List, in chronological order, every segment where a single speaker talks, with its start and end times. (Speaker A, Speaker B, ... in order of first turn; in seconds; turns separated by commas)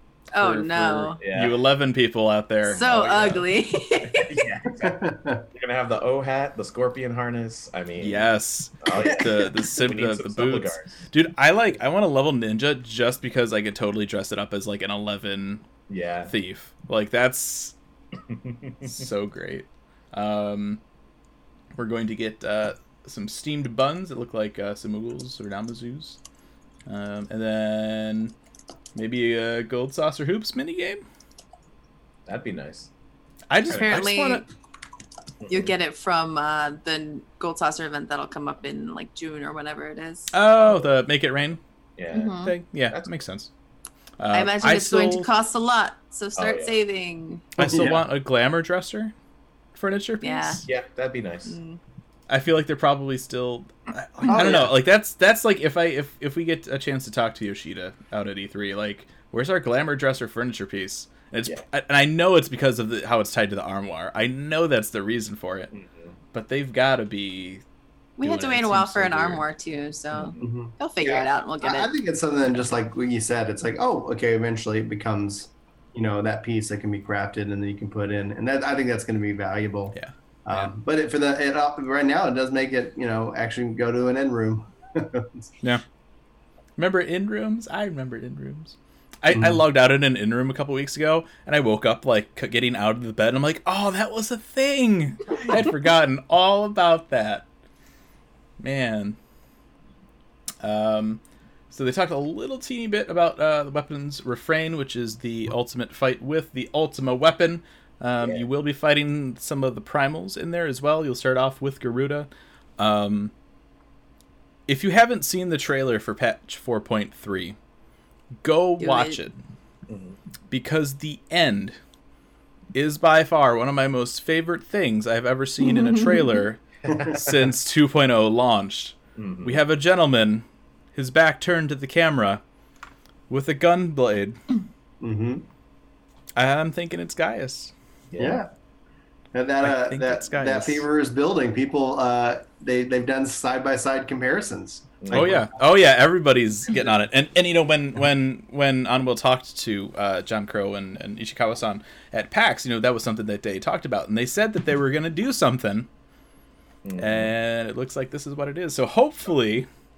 Speaker A: 0.3-1.2, Speaker B: 0.4-1.6, Speaker C: 1.3-3.5, Speaker A: 2.6-4.4, Speaker B: 4.0-8.3, Speaker D: 4.8-5.5, Speaker C: 8.0-15.7, Speaker B: 8.8-11.0, Speaker B: 15.9-16.3, Speaker C: 16.3-17.7, Speaker B: 18.3-19.1, Speaker C: 18.8-20.8, Speaker C: 21.8-26.2, Speaker C: 26.9-28.3, Speaker C: 28.9-31.0, Speaker B: 32.3-32.9, Speaker C: 33.5-34.5, Speaker A: 33.7-34.5, Speaker B: 33.7-34.0, Speaker B: 35.5-35.7, Speaker A: 35.5-40.3, Speaker C: 40.3-41.6, Speaker B: 40.6-41.0, Speaker B: 42.0-43.1, Speaker A: 42.1-42.5, Speaker C: 42.4-43.5, Speaker C: 44.2-45.3, Speaker A: 44.3-47.5, Speaker B: 46.4-46.8, Speaker C: 47.6-49.1, Speaker D: 47.6-48.0, Speaker B: 47.7-48.0, Speaker C: 49.8-50.6, Speaker A: 50.2-50.6, Speaker B: 50.6-51.6, Speaker A: 51.5-51.8, Speaker C: 52.3-65.7, Speaker D: 54.3-54.7, Speaker B: 54.3-54.7, Speaker B: 65.7-66.1, Speaker C: 66.3-67.6, Speaker A: 68.2-71.9, Speaker C: 68.2-69.5, Speaker B: 70.1-70.4, Speaker D: 70.4-85.5, Speaker C: 80.0-80.7, Speaker C: 86.8-97.5, Speaker D: 89.3-89.6, Speaker C: 98.6-99.2, Speaker C: 100.6-113.3, Speaker B: 108.2-108.5, Speaker C: 114.7-117.6, Speaker C: 118.4-119.4, Speaker A: 118.8-119.2, Speaker B: 119.9-120.2, Speaker C: 120.5-121.8, Speaker C: 122.7-132.4, Speaker A: 125.6-126.4, Speaker B: 129.2-129.6, Speaker C: 133.3-134.4, Speaker D: 135.0-135.4, Speaker C: 136.4-137.7, Speaker B: 138.1-138.4, Speaker D: 138.2-138.5, Speaker D: 139.3-145.5, Speaker C: 139.6-140.9, Speaker B: 145.0-145.5, Speaker C: 145.1-155.9, Speaker B: 156.8-157.3, Speaker C: 157.0-159.7